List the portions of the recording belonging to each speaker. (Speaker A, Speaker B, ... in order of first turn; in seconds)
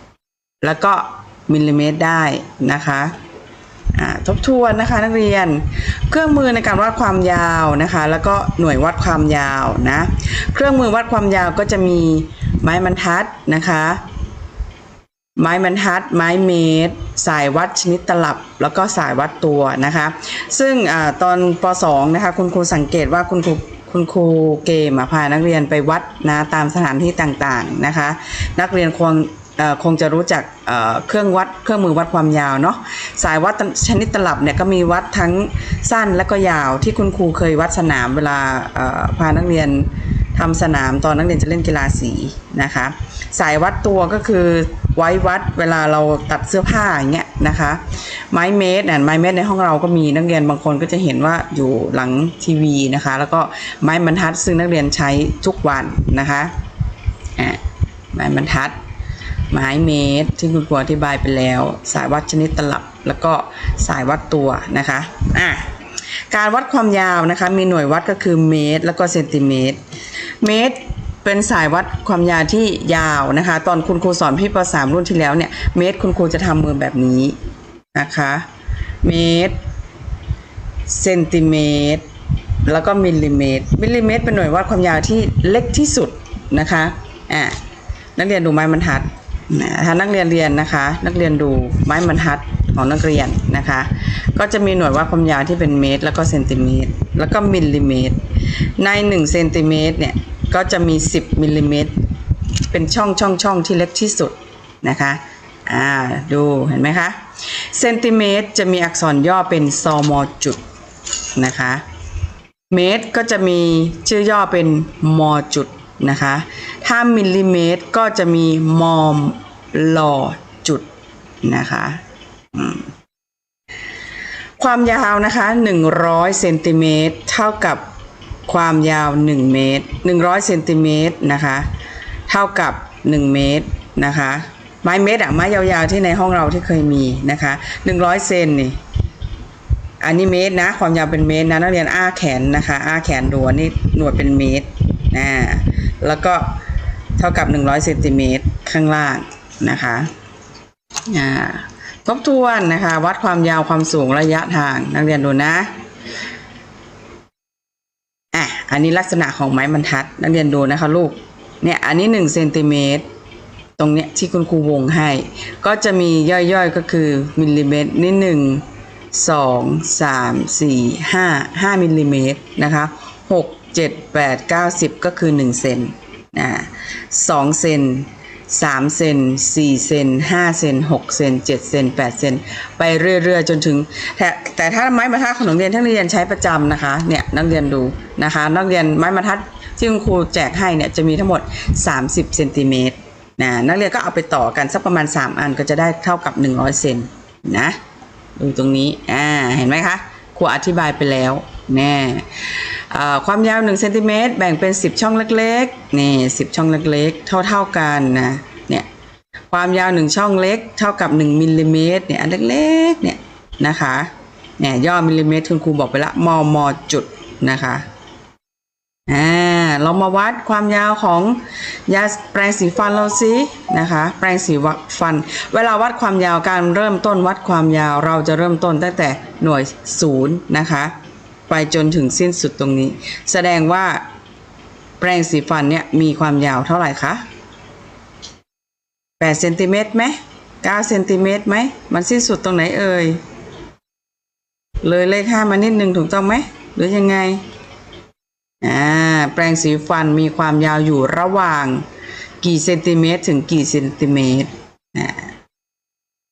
Speaker A: 0.6-3.2, 3.9-14.0, 15.4-56.5, 57.4-58.8, 59.5-69.8, 70.4-77.4, 77.9-78.5, 79.0-79.6, 80.9-82.1, 82.7-87.6, 88.2-102.0, 102.7-110.6, 111.3-111.8, 112.7-120.9, 121.4-122.0, 122.5-122.9, 124.6-127.8, 128.5-131.7, 132.3-138.8, 140.0-146.6, 147.2-150.1, 151.1-155.7, 158.3-163.1, 163.8-197.8, 198.4-208.9, 209.5-217.9, 219.1-230.9, 231.5-234.1, 235.0-237.2, 239.2-243.2, 244.8-247.4, 248.6-251.8, 252.4-255.3